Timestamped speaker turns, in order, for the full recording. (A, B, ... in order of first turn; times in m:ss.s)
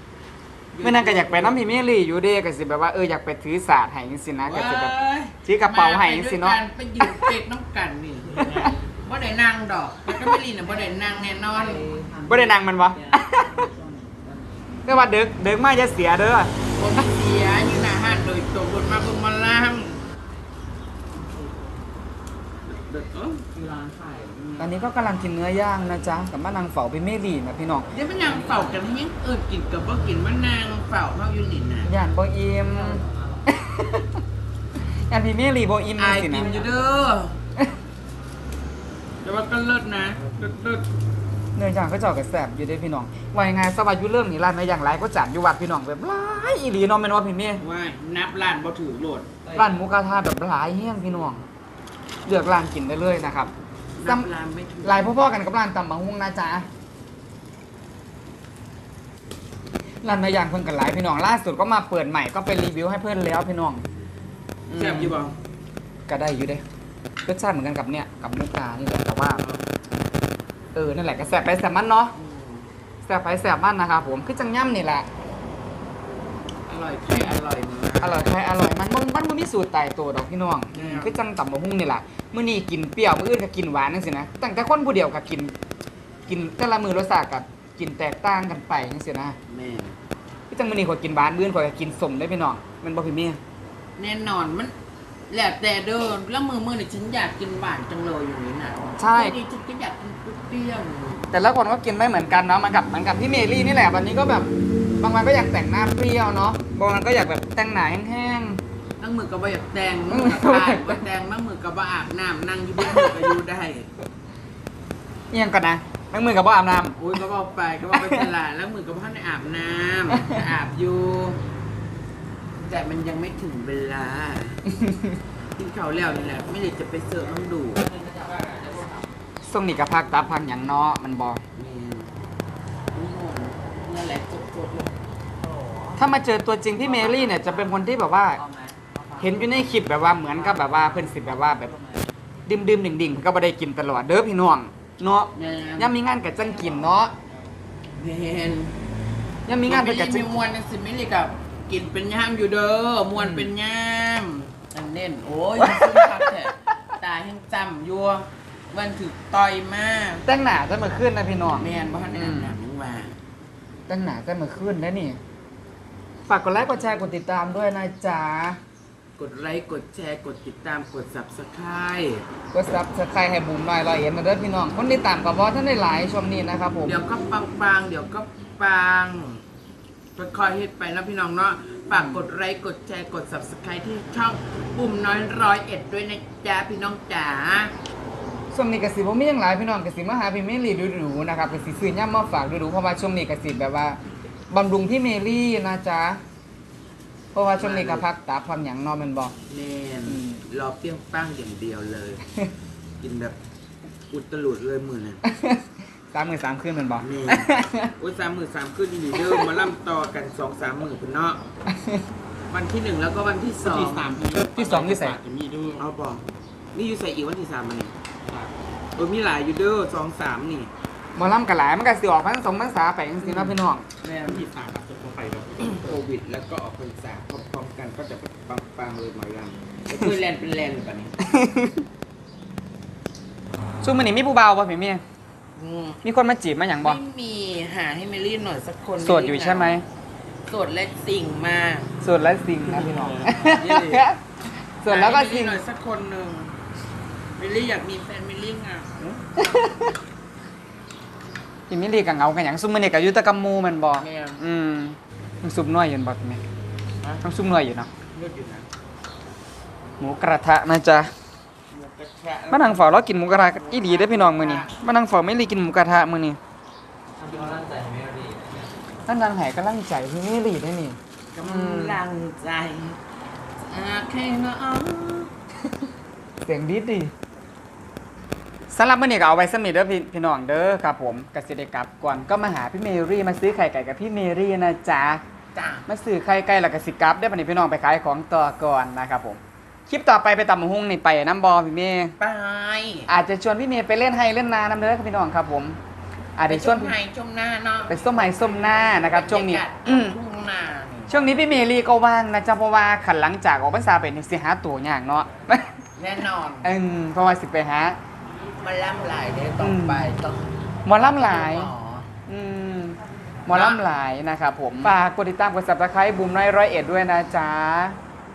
0:00.7-0:01.7 A
0:00.8-0:07.3 B
0:04.4-0:11.9 A
0:08.4-0:08.8 C
0:08.4-0:08.7 B
0:11.5-0:14.8 C
0:12.2-0:13.7 B
0:14.8-0:16.5 B
0:16.7-0:20.0 A
0:21.2-0:21.8 C
0:22.7-0:23.5 A
0:23.5-0:24.6 C
0:24.6-0:27.9 B
0:27.9-0:31.9 A
0:28.2-0:28.7 C
0:31.8-0:34.2 B
0:32.7-0:33.4 C
0:35.1-0:36.5 B
0:36.0-0:37.4 A
0:39.2-0:40.9 A
0:41.6-0:47.6 B
0:47.6-0:49.4 A
0:49.5-0:51.4 B
0:52.2-0:53.5 B
0:54.0-0:55.1 A
0:54.8-0:56.7 B
1:00.0-1:03.8 B
1:04.7-1:05.2 B
1:04.7-1:05.4 A
1:06.1-1:06.6 B
1:07.2-1:09.4 B
1:09.3-1:09.6 A
1:10.8-1:12.1 B
1:12.2-1:12.7 A
1:13.0-1:15.1 B
1:16.7-1:18.3 A
1:18.0-1:25.5 B
1:20.7-1:21.2 A
1:26.3-1:29.4 B
1:29.5-1:30.0 A
1:30.5-1:33.4 B
1:34.0-1:34.7 A
1:35.3-1:41.3 A
1:39.0-1:39.4 B
1:41.3-1:48.6 B
1:49.0-1:53.9 A
1:50.1-1:51.0 B
1:55.3-1:57.0 B
1:57.0-2:01.4 A
1:57.9-1:58.2 B
2:02.6-2:04.6 A
2:04.7-2:05.2 B
2:05.6-2:07.9 A
2:08.0-2:09.1 C
2:09.4-2:11.4 B
2:11.6-2:12.1 A
2:12.9-2:15.0 A
2:15.5-2:15.9 C
2:16.0-2:18.4 B
2:17.1-2:17.4 C
2:18.5-2:19.4 C
2:19.2-2:21.7 B
2:20.3-2:22.0 C
2:22.5-2:27.1 B
2:25.3-2:25.9 A
2:27.9-2:28.8 A
2:29.5-2:30.2 B
2:29.6-2:40.2 A
2:33.2-2:33.4 B
2:35.6-2:36.2 B
2:40.2-2:42.6 B
2:41.6-2:43.2 A
2:43.9-2:45.2 B
2:46.3-2:48.6 B
2:49.2-2:52.2 A
2:52.5-2:57.0 B
2:56.8-2:59.4 A
3:00.2-3:07.7 A
3:01.9-3:02.2 B
3:08.5-3:14.0 B
3:14.5-3:16.2 B
3:17.3-3:19.3 B
3:17.6-3:18.0 A
3:19.5-3:22.2 A
3:20.1-3:20.4 B
3:23.0-3:23.4 A
3:24.1-3:25.2 A
3:25.3-3:27.9 B
3:27.0-3:31.4 A
3:31.7-3:32.1 B
3:32.5-3:34.3 A
3:33.6-3:35.8 C
3:34.5-3:35.2 B
3:35.8-3:37.9 A
3:39.0-3:40.7 A
3:41.2-3:43.9 B
3:43.2-3:44.5 A
3:44.2-3:45.9 C
3:45.6-3:51.2 A
3:51.2-3:51.8 B
3:53.8-3:55.0 B
3:55.6-3:56.0 A
3:56.0-3:57.0 B
3:56.8-3:59.8 A
3:59.0-3:59.8 B
4:00.5-4:01.9 A
4:02.0-4:04.2 B
4:03.1-4:04.1 A
4:04.8-4:05.6 B
4:04.8-4:06.6 A
4:07.4-4:09.2 A
4:09.4-4:09.9 B
4:11.7-4:16.4 B
4:14.0-4:14.4 A
4:17.2-4:17.9 B
4:18.1-4:18.7 A
4:20.0-4:21.1 B
4:21.7-4:24.8 A
4:22.5-4:26.4 B
4:27.2-4:28.7 C
4:29.1-4:32.0 B
4:31.3-4:33.0 A
4:33.6-4:35.3 A
4:36.4-4:37.1 B
4:38.7-4:45.2 B
4:45.6-4:45.9 A
4:45.9-4:52.2 B
4:52.2-4:53.1 A
4:53.1-4:55.8 B
4:56.4-4:56.9 B
4:56.5-5:01.3 A
4:57.9-5:00.2 B
5:01.1-5:05.7 B
5:06.0-5:06.7 A
5:06.6-5:08.0 B
5:08.6-5:10.4 A
5:09.6-5:10.1 B
5:10.9-5:11.7 B
5:11.0-5:12.1 A
5:12.3-5:18.0 B
5:13.5-5:13.8 A